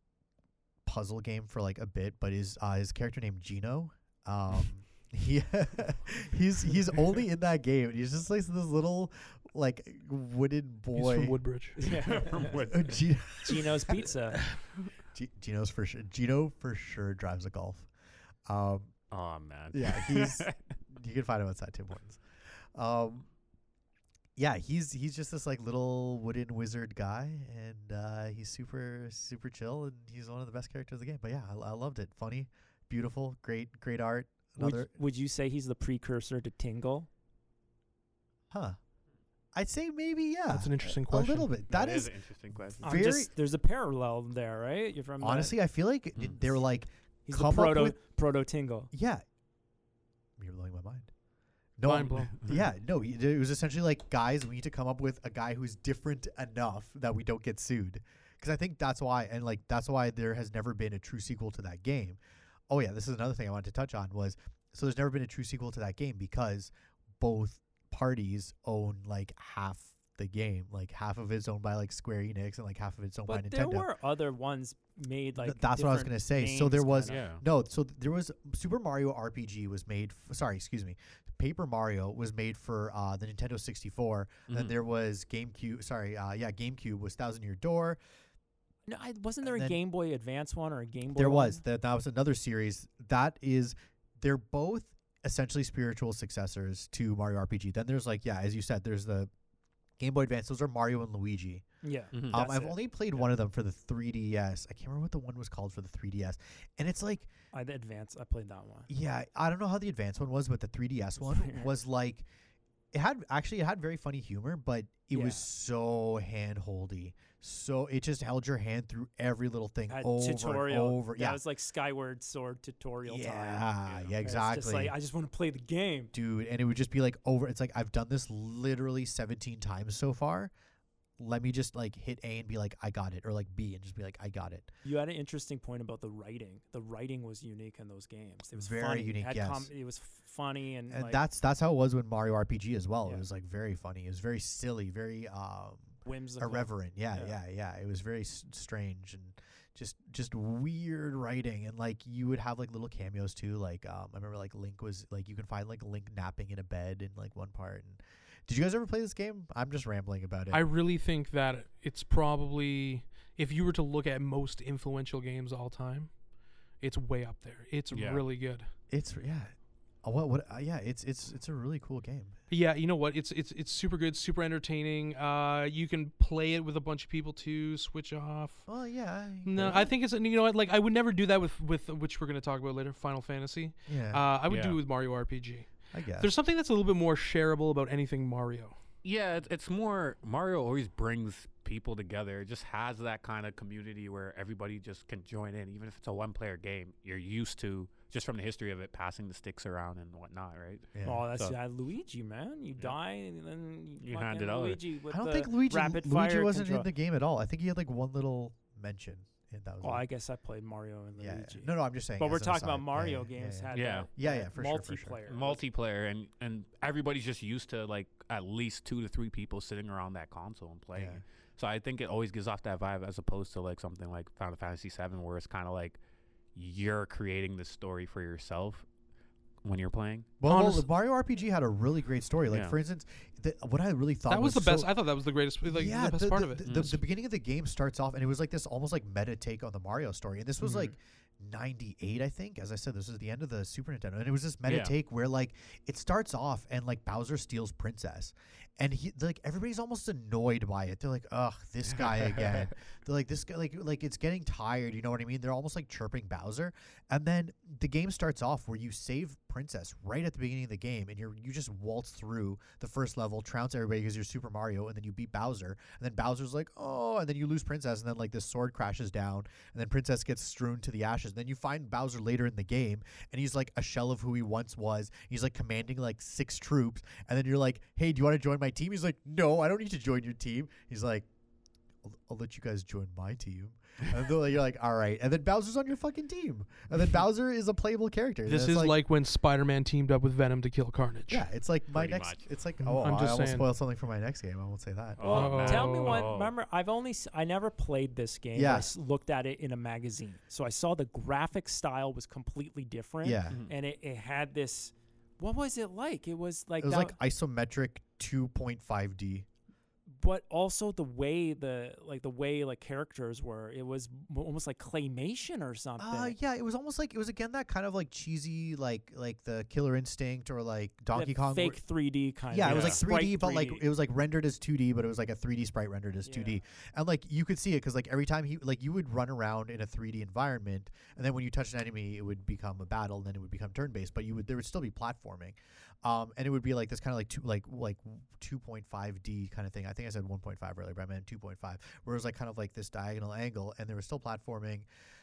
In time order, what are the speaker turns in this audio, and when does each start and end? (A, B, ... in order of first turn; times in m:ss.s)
0:00.9-0:11.4 A
0:10.9-0:11.8 B
0:11.8-0:12.6 C
0:11.8-0:13.0 D
0:12.7-0:14.1 A
0:13.5-0:14.4 C
0:15.1-0:17.9 A
0:18.5-0:19.0 A
0:19.1-0:20.6 D
0:19.7-0:23.3 A
0:24.4-0:34.9 A
0:34.6-0:37.1 C
0:38.5-0:38.8 A
0:39.5-0:42.1 A
0:40.5-0:41.5 B
0:41.7-0:43.0 D
0:42.8-0:43.3 A
0:42.8-0:45.5 C
0:45.2-0:48.0 A
0:47.3-0:48.9 C
0:48.9-0:49.2 A
0:50.4-0:51.1 A
0:51.8-1:13.9 A
0:51.8-0:52.4 B
1:13.3-1:17.2 C
1:15.4-1:28.0 A
1:17.1-1:17.4 D
1:24.5-1:24.7 D
1:28.9-1:31.6 C
1:29.4-1:29.8 A
1:31.1-1:39.3 A
1:40.0-1:41.6 A
1:41.8-1:43.3 C
1:42.1-1:42.4 D
1:42.2-1:47.3 A
1:47.5-1:48.9 C
1:48.9-1:52.3 A
1:51.3-1:51.7 C
1:52.9-2:01.4 A
1:55.1-1:55.5 C
1:59.9-2:03.7 C
2:03.0-2:05.0 A
2:03.9-2:04.2 D
2:04.2-2:06.1 C
2:06.1-2:10.5 A
2:11.2-2:14.7 A
2:14.8-2:21.2 C
2:18.5-2:19.7 A
2:20.9-2:40.6 A
2:26.0-2:27.4 C
2:40.5-2:46.1 B
2:46.8-2:48.7 B
2:47.9-2:48.2 D
2:48.9-2:52.4 A
2:52.5-2:58.7 B
2:58.7-2:59.9 A
2:59.4-3:08.8 B
3:03.9-3:04.3 A
3:04.5-3:04.8 D
3:05.9-3:06.3 A
3:09.0-3:21.6 D
3:20.9-3:21.3 A
3:21.0-3:26.9 C
3:24.0-3:24.8 D
3:25.1-3:30.0 A
3:29.8-3:35.6 C
3:31.2-3:35.2 A
3:33.7-3:34.1 D
3:35.3-3:46.0 D
3:41.0-3:41.2 A
3:46.6-3:48.8 D
3:49.6-3:50.3 D
3:50.4-3:54.9 A
3:50.5-3:50.9 B
3:52.5-3:52.8 D
3:54.3-3:56.9 B
3:55.6-4:41.3 A
3:56.6-3:57.0 D
4:04.7-4:04.9 D
4:11.9-4:12.7 D
4:42.0-4:49.0 A
4:48.5-4:51.5 B
4:51.3-4:55.7 A
4:51.9-4:52.4 D
4:52.8-4:53.7 B
4:55.2-4:56.5 D
4:55.2-5:07.1 C
4:55.3-4:56.3 B
4:58.5-4:58.9 A
5:03.2-5:03.6 A
5:06.8-5:09.5 A
5:10.1-5:16.3 C
5:16.0-5:21.8 A
5:21.1-5:23.8 C
5:22.5-5:44.9 A
5:22.6-5:23.0 D
5:26.2-5:26.6 C